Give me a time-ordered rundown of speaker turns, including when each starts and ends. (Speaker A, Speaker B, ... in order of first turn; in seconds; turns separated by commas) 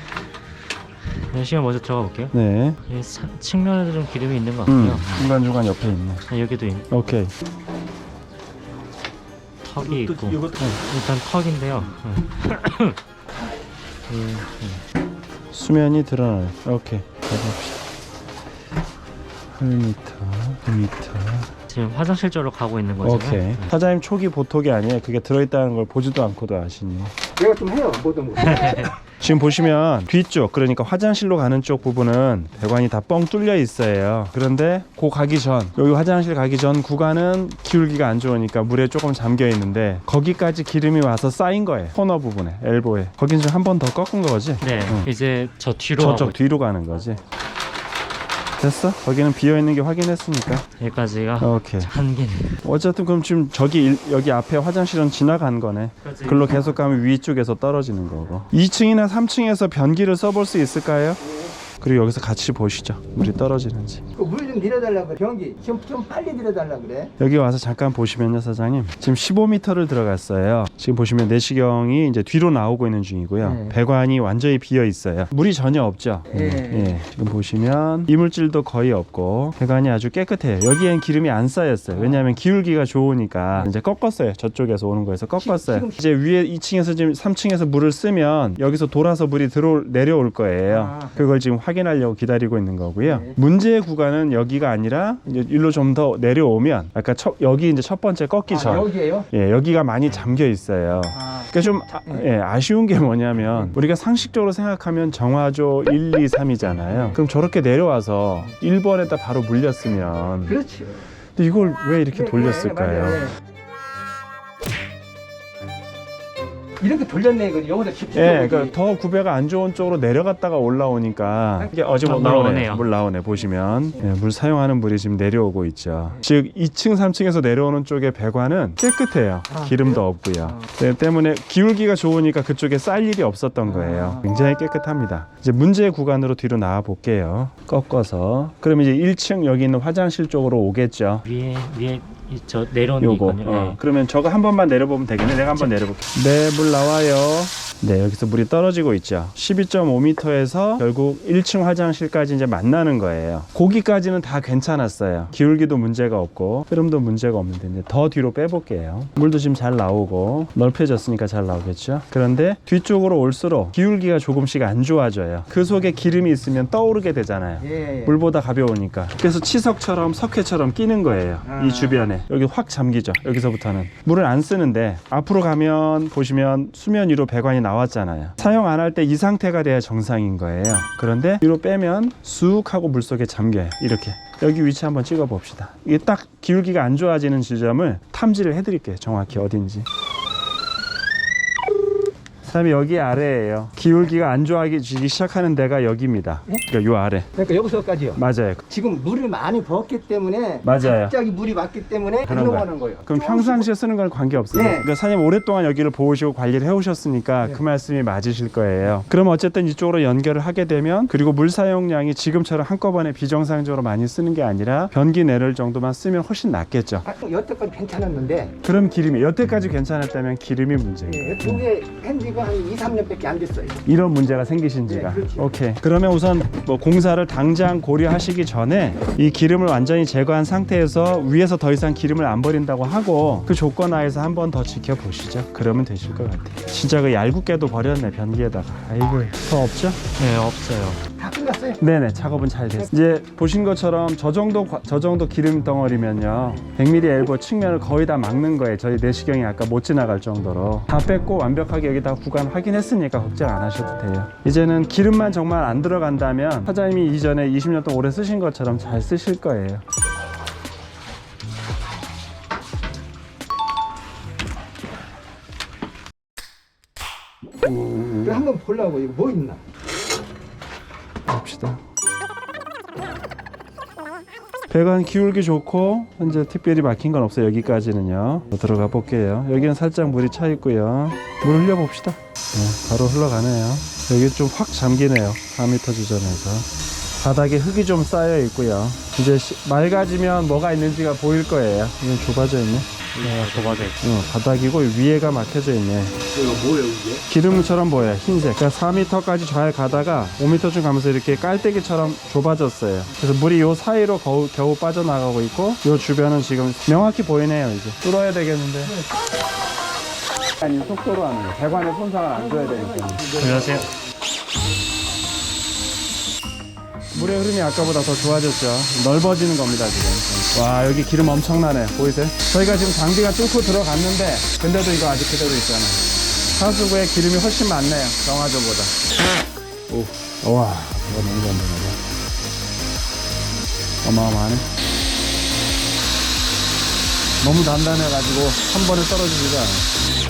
Speaker A: 1.1-5.3, Speaker B: 2.3-2.8, Speaker B: 4.7-6.2, Speaker A: 6.3-6.9, Speaker B: 6.9-7.3, Speaker A: 9.6-13.0, Speaker B: 9.8-10.8, Speaker A: 14.1-14.8, Speaker B: 15.5-17.8, Speaker B: 19.6-21.5, Speaker A: 21.7-23.7, Speaker B: 23.0-27.1, Speaker C: 27.4-28.9, Speaker A: 28.4-28.9, Speaker B: 29.0-45.1, Speaker A: 44.6-46.4, Speaker B: 46.0-47.2, Speaker B: 48.6-50.7, Speaker A: 50.8-52.6, Speaker B: 51.4-51.9, Speaker B: 52.6-61.2, Speaker A: 56.0-56.8, Speaker B: 61.8-64.0, Speaker C: 64.2-67.1, Speaker B: 67.2-110.6, Speaker C: 73.4-73.8, Speaker C: 76.3-77.0, Speaker C: 81.9-82.3, Speaker C: 85.4-86.0, Speaker C: 90.7-91.2, Speaker C: 93.0-93.4, Speaker C: 98.5-99.3, Speaker C: 101.1-102.2, Speaker C: 106.8-107.2, Speaker C: 110.5-111.0, Speaker B: 111.4-113.3, Speaker C: 112.1-113.3, Speaker C: 116.8-118.8, Speaker B: 118.1-141.3, Speaker A: 122.0-122.9, Speaker C: 129.5-130.7, Speaker C: 133.7-134.2, Speaker A: 141.3-143.8, Speaker B: 143.0-189.9, Speaker C: 167.6-168.2, Speaker C: 171.4-172.1, Speaker B: 192.4-197.3, Speaker C: 197.3-203.7, Speaker B: 198.2-198.6, Speaker B: 200.6-201.2, Speaker B: 202.3-217.1, Speaker C: 204.5-204.9, Speaker C: 217.0-218.6, Speaker B: 218.6-221.7, Speaker C: 221.1-223.8, Speaker B: 223.8-240.0, Speaker C: 224.9-225.6, Speaker A: 240.2-241.0, Speaker C: 241.2-241.8, Speaker B: 241.8-259.8, Speaker B: 267.6-268.5, Speaker C: 268.2-269.6, Speaker B: 271.3-271.8, Speaker B: 274.7-286.7, Speaker B: 287.2-296.2, Speaker A: 293.1-294.1, Speaker B: 297.1-309.0, Speaker B: 310.6-313.5, Speaker A: 313.3-313.9, Speaker B: 317.1-328.9, Speaker B: 329.9-332.0, Speaker B: 334.0-334.7, Speaker B: 337.4-339.9